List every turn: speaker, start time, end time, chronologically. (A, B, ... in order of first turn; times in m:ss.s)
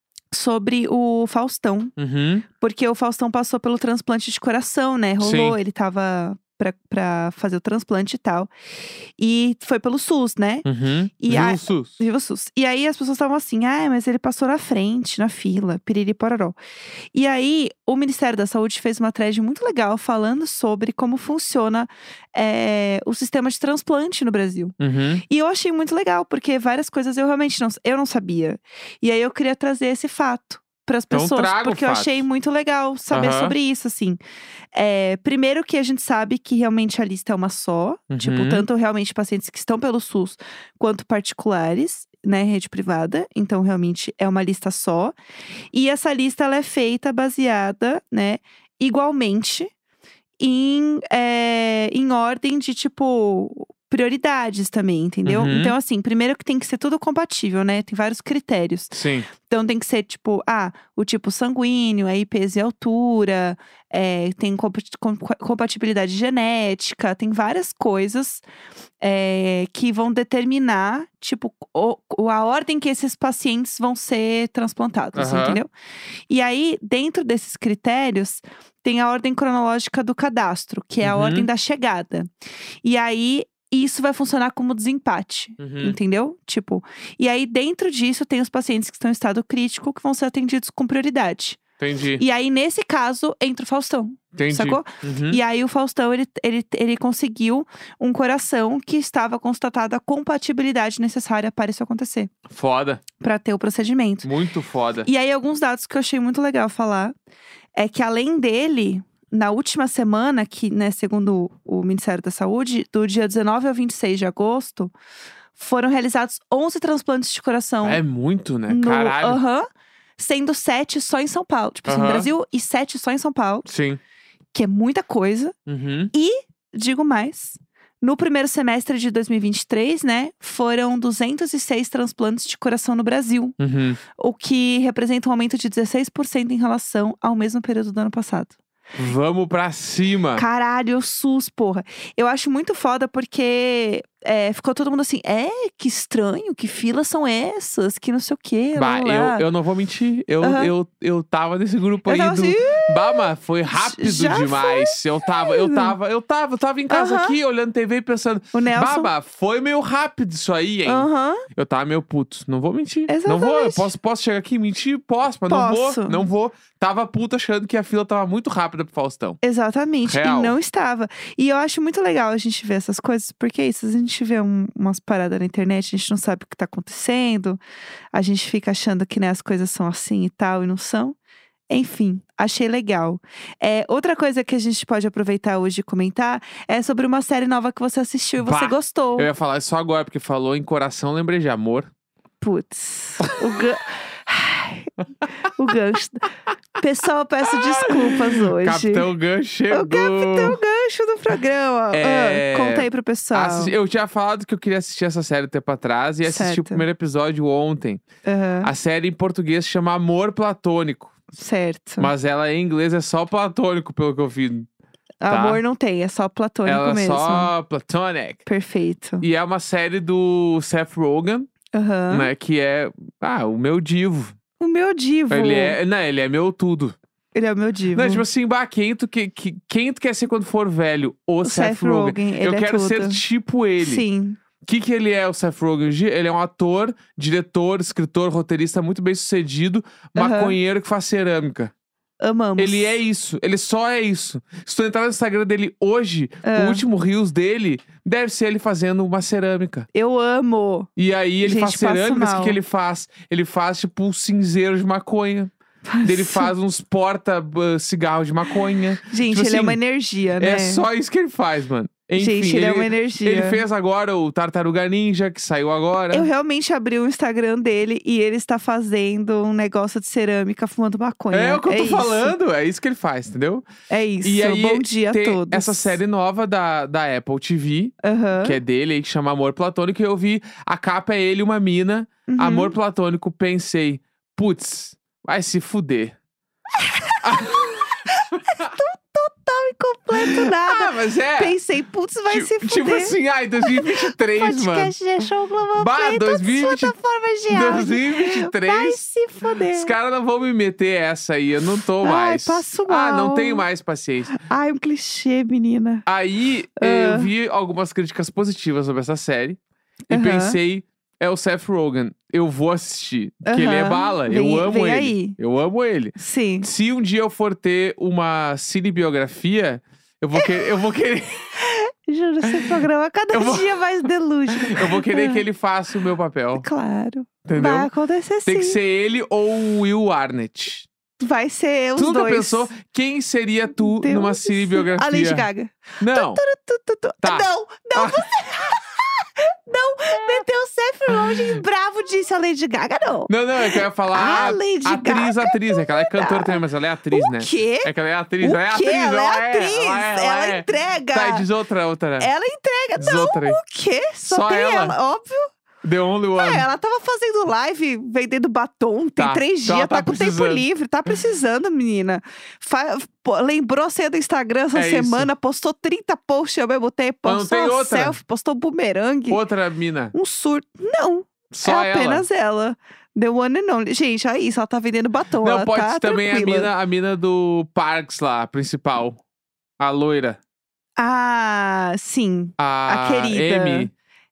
0:00.3-0:01.9 A
0:02.0-0:02.4 B
0:02.6-0:08.5 A
0:05.2-0:05.6 B
0:09.2-0:10.7 A
0:10.6-0:12.0 B
0:11.2-0:16.6 A
0:17.1-0:24.8 A
0:24.8-0:25.2 B
0:25.3-0:34.2 A
0:31.1-0:32.2 B
0:33.1-0:33.6 B
0:34.7-0:45.2 A
0:38.1-0:38.7 B
0:45.7-0:49.7 A
0:50.4-1:08.4 A
0:55.3-0:55.8 B
0:58.9-0:59.3 B
1:09.0-1:15.7 A
1:15.2-1:15.6 B
1:16.3-1:22.3 A
1:21.0-1:21.5 B
1:22.8-1:31.6 A
1:25.6-1:26.0 B
1:31.8-1:32.2 B
1:32.2-1:42.3 A
1:34.4-1:35.4 B
1:42.5-1:43.0 B
1:43.2-1:44.3 A
1:44.2-1:45.1 B
1:45.1-1:47.1 A
1:47.8-1:54.9 A
1:55.6-1:58.0 A
1:57.8-1:59.4 B
1:58.7-1:59.7 A
2:00.2-2:03.7 A
2:01.9-2:02.3 B
2:03.7-2:04.0 B
2:04.5-2:05.6 A
2:05.7-2:06.1 B
2:06.1-2:13.6 A
2:13.6-2:14.0 B
2:14.2-2:18.6 A
2:19.0-2:20.4 B
2:20.4-2:29.4 A
2:28.8-2:49.4 B
2:30.4-2:30.7 A
2:32.1-2:36.0 A
2:36.9-2:37.4 A
2:38.5-2:39.1 A
2:40.9-2:41.5 A
2:43.1-2:43.9 A
2:45.5-2:46.2 A
2:49.4-2:57.6 A
2:50.0-2:50.6 B
2:58.1-3:01.2 A
3:01.7-3:09.3 A
3:08.4-3:11.9 B
3:12.4-3:14.9 A
3:15.6-3:19.1 A
3:17.5-3:20.6 B
3:19.7-3:23.7 A
3:21.9-3:28.0 B
3:26.2-3:26.9 A
3:28.2-3:28.7 A
3:28.6-3:31.1 B
3:31.3-3:32.1 A
3:32.0-3:34.7 B
3:35.2-3:37.5 A
3:35.3-3:35.6 B
3:36.7-3:38.4 B
3:38.5-3:39.2 A
3:39.2-3:41.5 B
3:41.7-3:42.3 A
3:42.1-3:44.4 B
3:44.6-3:45.8 A
3:45.3-3:47.0 B
3:47.3-3:48.2 A
3:47.9-3:54.0 B
3:51.4-3:53.2 A
3:53.8-3:54.4 A
3:54.6-4:01.7 B
4:00.2-4:00.6 A
4:02.2-4:03.0 A
4:02.6-4:09.9 B
4:06.4-4:06.8 A
4:09.9-4:10.9 A
4:11.0-4:15.5 B
4:11.4-4:12.6 A
4:15.9-4:16.5 A
4:16.0-4:19.8 B
4:19.1-4:20.8 A
4:20.4-4:26.3 B
4:22.2-4:23.6 A
4:26.1-4:32.4 A
4:31.3-4:33.7 B
4:33.9-4:36.0 A
4:34.2-4:46.2 B
4:38.0-4:38.6 A
4:42.3-4:42.7 A
4:46.8-4:59.9 A
4:47.2-4:48.8 B
4:50.1-4:51.6 B
4:52.3-4:56.9 B
4:57.5-4:59.0 B
4:59.7-5:04.3 B
5:02.0-5:03.6 A
5:04.3-5:06.0 A
5:06.1-5:21.5 B
5:06.8-5:07.3 A
5:10.1-5:10.6 A
5:13.4-5:15.4 A
5:16.2-5:16.7 A
5:21.6-5:25.4 A
5:22.4-5:22.7 B
5:23.3-5:23.8 B
5:24.5-5:26.6 B
5:26.6-5:28.8 A
5:27.4-5:27.9 B
5:28.5-5:30.9 B
5:31.2-5:32.7 A
5:32.0-5:35.5 B
5:33.8-5:47.9 A
5:36.0-5:36.4 B
5:37.2-5:38.3 B
5:41.1-5:41.6 B
5:43.3-5:52.3 B
5:48.4-5:51.5 A
5:52.2-5:55.5 A
5:53.0-5:53.6 B
5:54.2-5:55.0 B
5:55.8-5:56.7 B
5:56.4-6:09.4 A
5:59.2-6:00.6 B
6:04.7-6:05.3 B
6:07.3-6:08.2 B
6:09.3-6:10.1 B
6:10.1-6:16.7 A
6:11.5-6:12.3 B
6:15.4-6:19.2 B
6:19.8-6:20.4 B
6:21.0-6:23.9 A
6:22.6-6:23.9 B